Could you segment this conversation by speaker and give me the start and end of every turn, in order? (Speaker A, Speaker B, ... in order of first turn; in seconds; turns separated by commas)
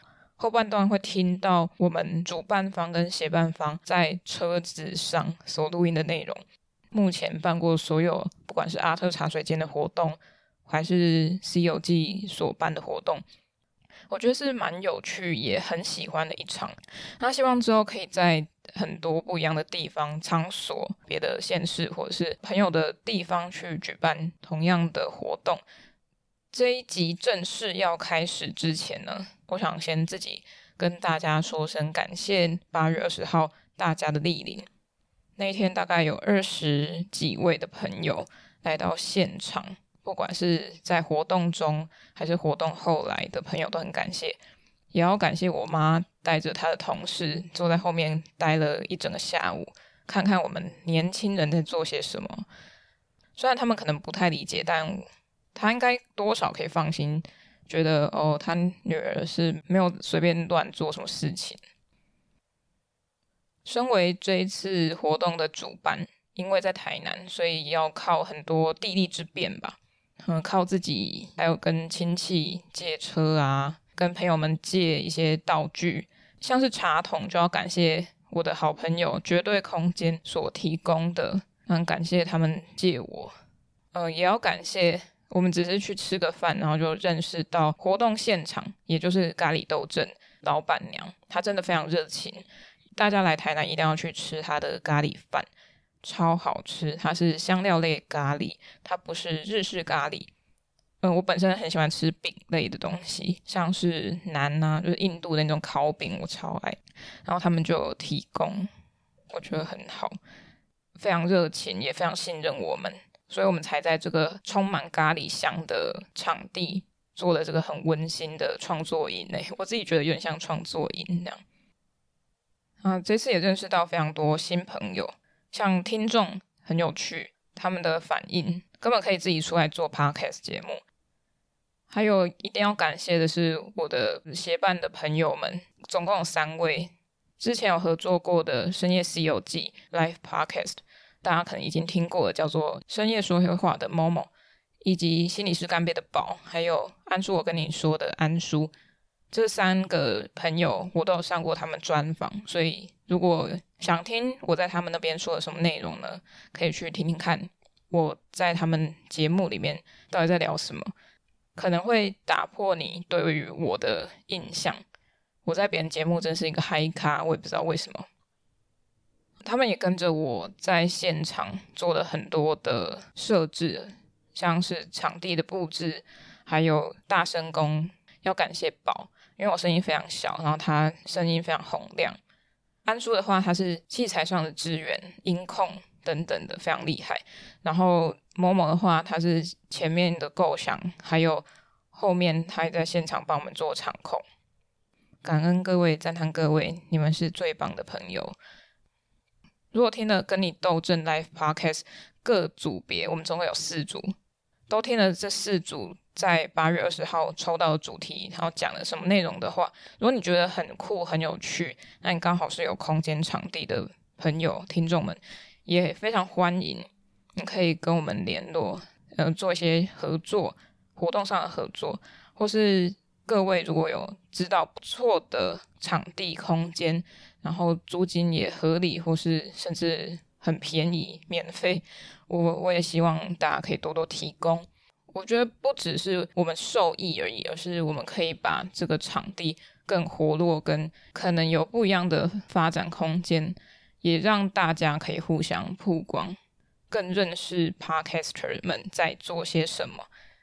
Speaker A: 0.4-13.2, Speaker A: 14.1-25.6, Speaker A: 26.5-34.7, Speaker A: 35.4-44.4, Speaker A: 44.9-52.5, Speaker A: 53.4-61.6, Speaker A: 63.6-83.3, Speaker A: 83.9-92.4, Speaker A: 93.0-95.5, Speaker A: 96.0-100.3, Speaker A: 101.0-108.7, Speaker A: 109.3-110.2, Speaker A: 111.0-121.4, Speaker A: 122.8-130.8, Speaker A: 131.9-144.3, Speaker A: 144.8-148.7, Speaker A: 149.3-160.9, Speaker A: 161.6-164.8, Speaker A: 165.4-168.1, Speaker A: 169.4-182.2, Speaker A: 182.9-194.2, Speaker A: 195.2-198.4, Speaker A: 199.7-204.2, Speaker A: 204.7-246.4, Speaker A: 246.9-250.1